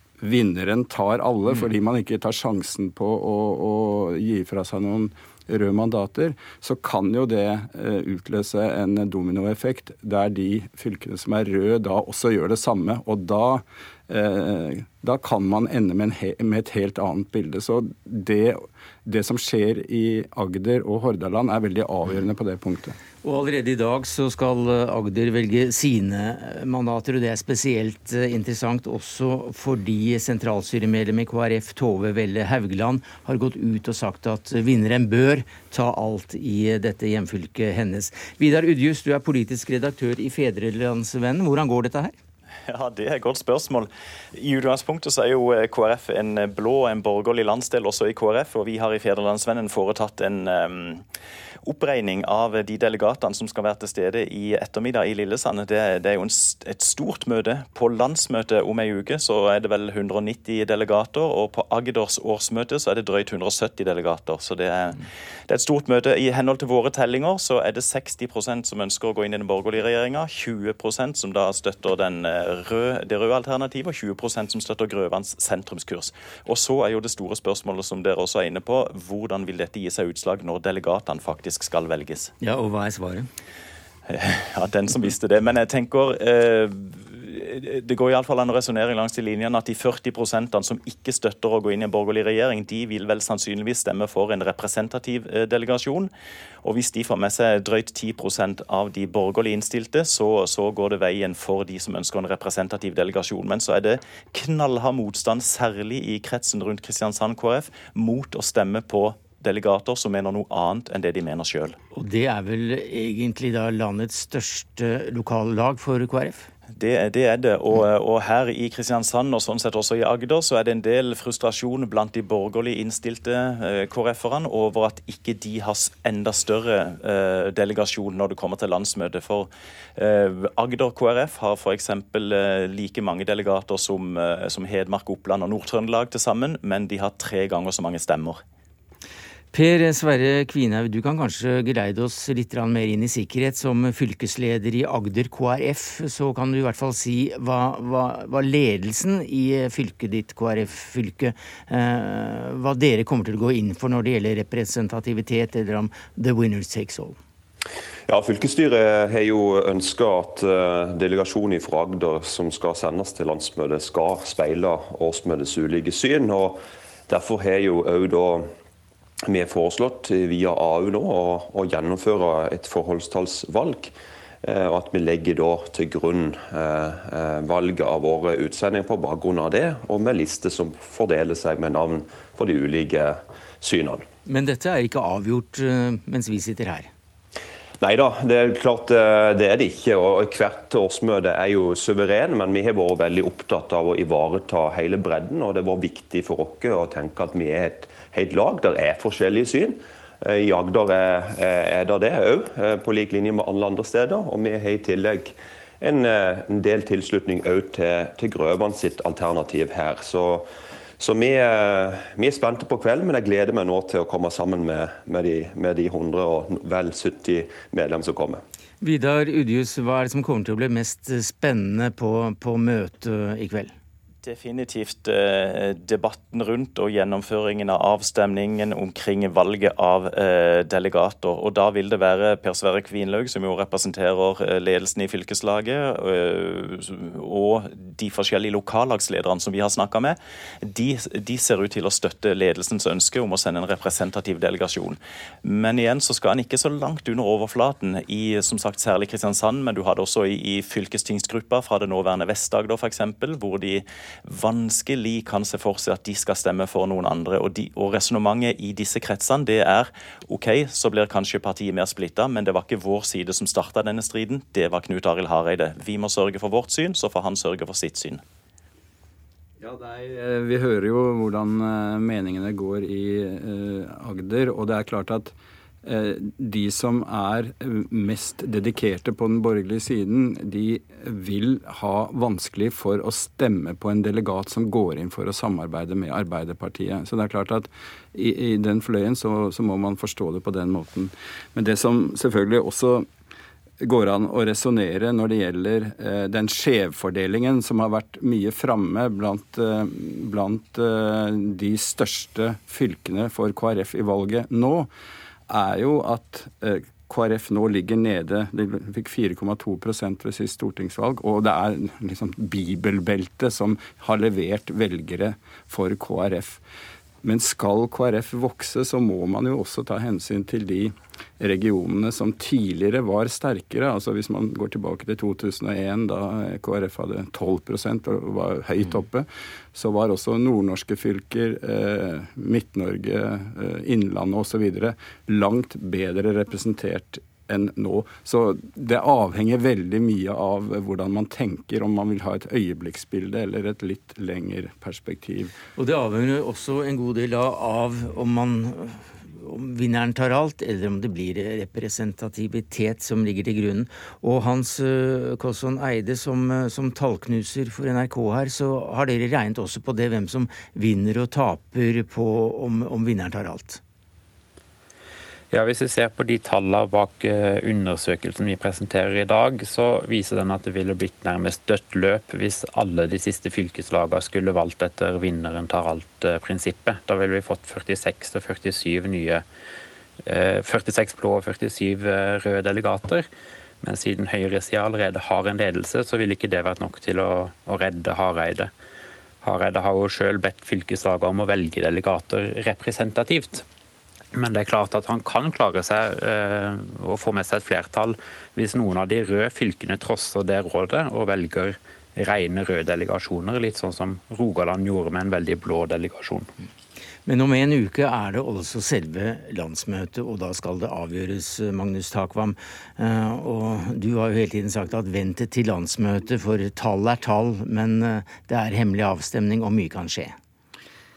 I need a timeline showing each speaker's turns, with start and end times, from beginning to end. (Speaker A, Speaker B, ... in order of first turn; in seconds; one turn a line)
Speaker A: 0.2-22.9
Speaker B: 23.2-42.1
Speaker C: 42.7-51.0
Speaker C: 51.6-82.3
Speaker B: 82.4-83.2
Speaker C: 84.1-96.1
Speaker C: 96.6-111.8
Speaker B: 112.0-116.5
Speaker C: 116.8-138.4
Speaker B: 139.5-157.2
Speaker D: 158.1-166.6
Speaker D: 167.1-168.4
Speaker D: 169.3-173.9
Speaker D: 174.4-184.0
Speaker B: 184.2-186.9
Speaker D: 187.8-210.4
Speaker D: 211.0-218.4
Speaker B: 218.8-223.7
Speaker C: 224.2-268.2
Speaker A: 269.6-293.1
Speaker A: 293.8-304.9
Speaker A: 305.5-316.6
Speaker A: 317.2-345.5
Speaker B: 345.8-363.8
Speaker E: 365.5-379.4
Speaker E: 380.2-383.3
Speaker E: 383.8-388.7
Speaker E: 389.4-393.6
Speaker E: 394.3-406.5
Speaker B: 407.2-420.3